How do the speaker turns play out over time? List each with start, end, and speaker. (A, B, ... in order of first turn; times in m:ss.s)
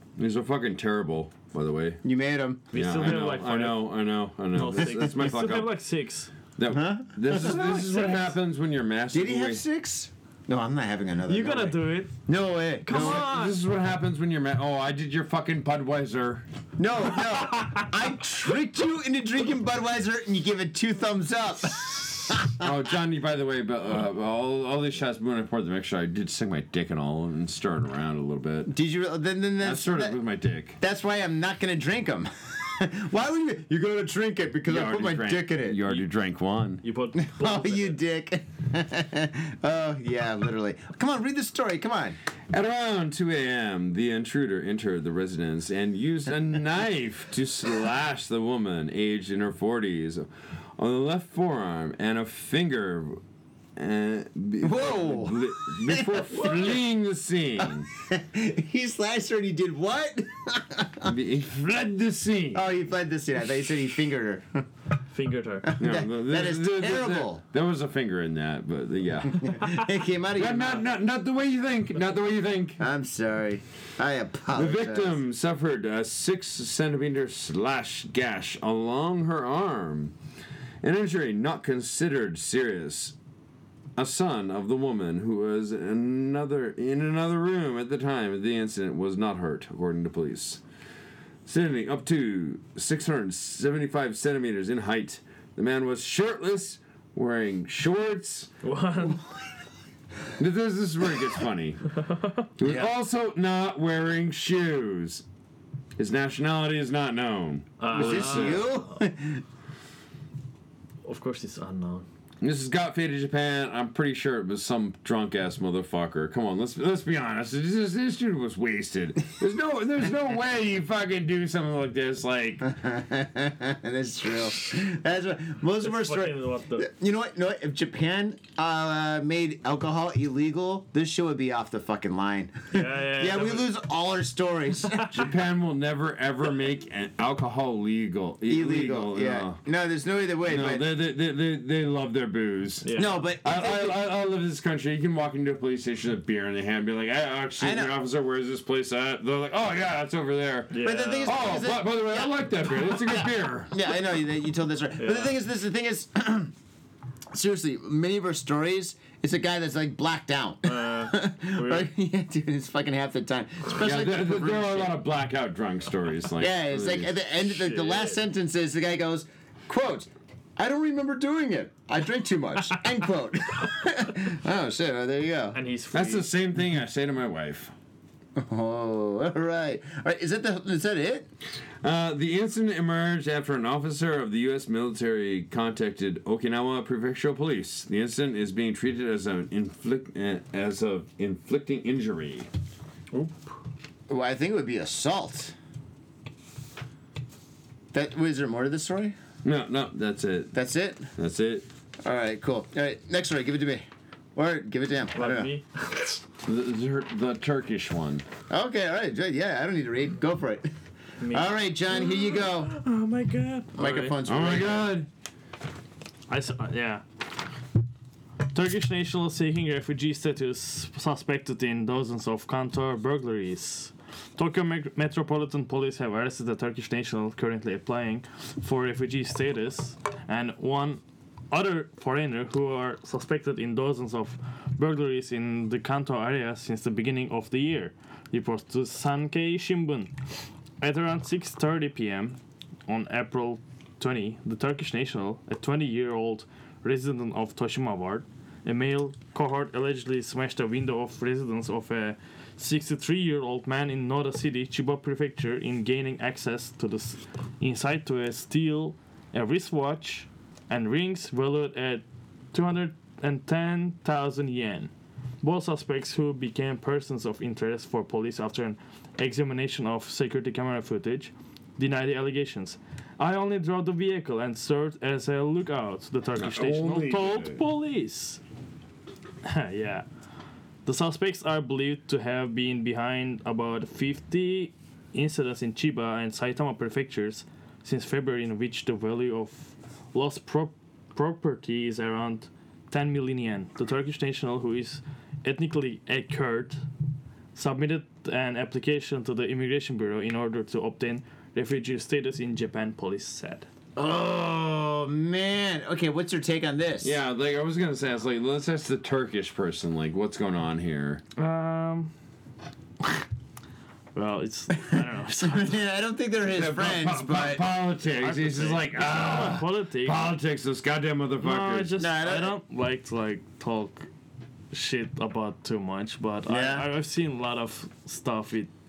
0:00.2-0:02.0 A
0:02.0-0:02.6 B
0:02.7-0:04.0 C
0:02.7-0:05.7 A
0:04.5-0:06.3 C
0:06.6-0:09.6 A
0:06.7-0:08.2 B
0:07.6-0:08.2 C
0:09.1-0:13.2 B
0:11.3-0:12.2 C
0:12.8-0:13.6 C
0:12.9-0:16.5 A
0:16.8-0:22.7 B
0:22.5-0:28.7 A
0:28.7-0:30.2 B
0:29.6-0:30.8 A
0:30.8-0:35.8 B
0:34.7-0:36.8 A
0:36.8-0:38.0 C
0:37.2-0:42.2 B
0:42.5-0:53.2 A
0:53.8-0:57.9 A
0:54.6-0:56.6 B
0:58.1-1:01.1 B
1:01.0-1:02.7 A
1:02.5-1:04.7 B
1:05.1-1:05.7 C
1:05.7-1:07.4 B
1:05.8-1:09.7 A
1:09.3-1:10.9 B
1:10.4-1:12.8 A
1:12.8-1:15.2 B
1:14.5-1:20.2 A
1:20.8-1:23.2 A
1:24.0-1:30.6 A
1:31.5-1:38.5 A
1:38.6-1:39.2 C
1:40.4-1:42.0 A
1:42.1-1:42.4 C
1:42.6-1:45.2 A
1:46.0-1:48.7 A
1:47.8-1:49.0 C
1:47.9-1:49.4 B
1:51.0-1:52.1 C
1:52.4-2:02.7 A
2:02.6-2:15.1 B
2:05.8-2:06.9 C
2:12.7-2:13.7 C
2:15.1-2:19.6 A
2:18.5-2:20.9 B
2:20.4-2:33.7 A
2:22.8-2:23.2 C
2:23.0-2:24.0 B
2:27.6-2:27.9 B
2:30.7-2:31.4 C
2:30.8-2:36.5 B
2:35.0-2:35.4 C
2:37.3-2:45.0 B
2:40.6-2:41.9 C
2:43.8-2:47.1 A
2:46.4-2:55.6 B
2:47.5-2:48.2 C
2:55.5-2:56.3 C
2:55.9-2:57.7 A
2:58.4-3:01.3 B
3:01.8-3:12.5 A
3:14.1-3:15.5 B
3:17.9-3:19.2 B
3:19.4-3:20.6 A
3:20.5-3:21.1 B
3:21.2-3:21.7 A
3:22.0-3:23.8 B
3:24.4-3:25.5 B
3:25.2-3:26.2 C
3:26.4-3:28.2 A
3:28.5-3:30.7 B
3:31.2-3:34.2 C
3:31.3-3:32.7 B
3:33.7-3:34.9 B
3:34.2-3:35.1 A
3:36.3-3:37.0 C
3:38.5-4:00.1 C
4:00.8-4:24.9 C
4:25.4-4:38.4 C
4:36.4-4:37.6 A
4:39.4-4:40.0 C
4:40.9-4:56.8 C
4:57.5-5:03.7 C
5:04.0-5:07.2 B
5:07.0-5:11.2 A
5:11.4-5:12.1 C
5:14.2-5:15.8 C
5:14.9-5:17.7 B
5:16.5-5:22.0 A
5:18.1-5:20.2 C
5:21.4-5:24.1 C
5:22.0-5:22.6 B
5:24.7-5:28.7 C
5:26.5-5:26.9 B